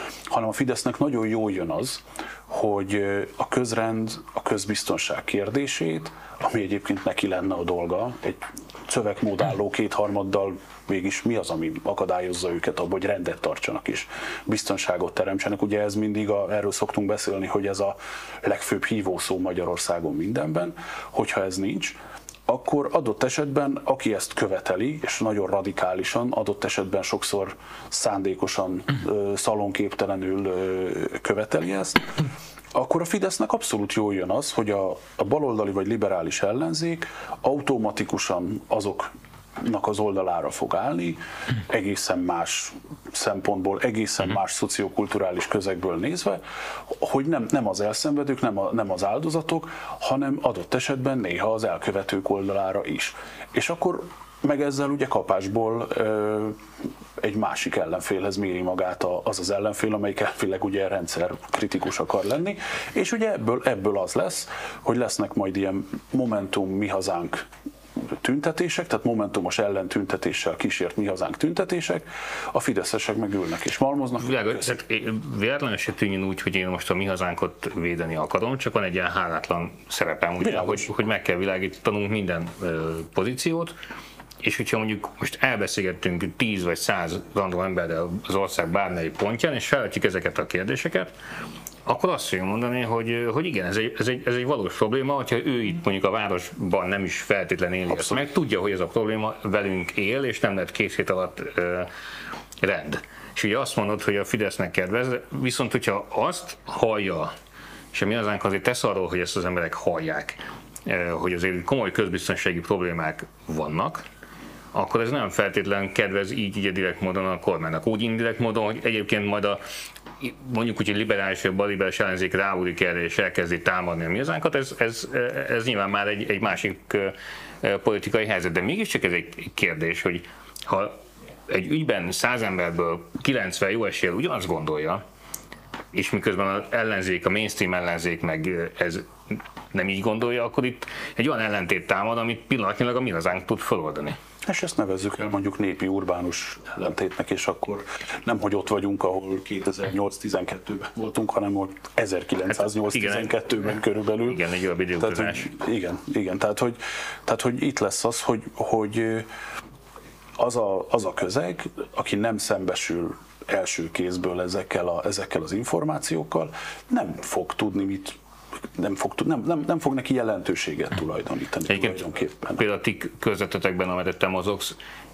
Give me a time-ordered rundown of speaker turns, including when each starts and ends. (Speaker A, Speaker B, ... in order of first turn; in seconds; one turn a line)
Speaker A: 0.3-32.1
Speaker A: 32.7-56.6
Speaker A: 57.2-67.5
Speaker A: 68.2-74.8
Speaker B: 74.2-83.7
Speaker A: 80.4-80.9
Speaker B: 84.4-91.1
Speaker B: 91.9-101.9
Speaker A: 97.9-98.2
Speaker B: 102.6-107.3
Speaker B: 107.9-114.0
Speaker B: 114.7-119.6
Speaker B: 120.2-130.9
Speaker B: 131.5-135.0
Speaker B: 135.9-144.2
Speaker A: 144.4-154.4
Speaker B: 152.5-153.4
Speaker B: 154.2-155.5
Speaker A: 155.0-159.3
Speaker A: 160.4-168.2
Speaker A: 168.7-172.6
Speaker B: 171.7-172.0
Speaker B: 172.6-174.8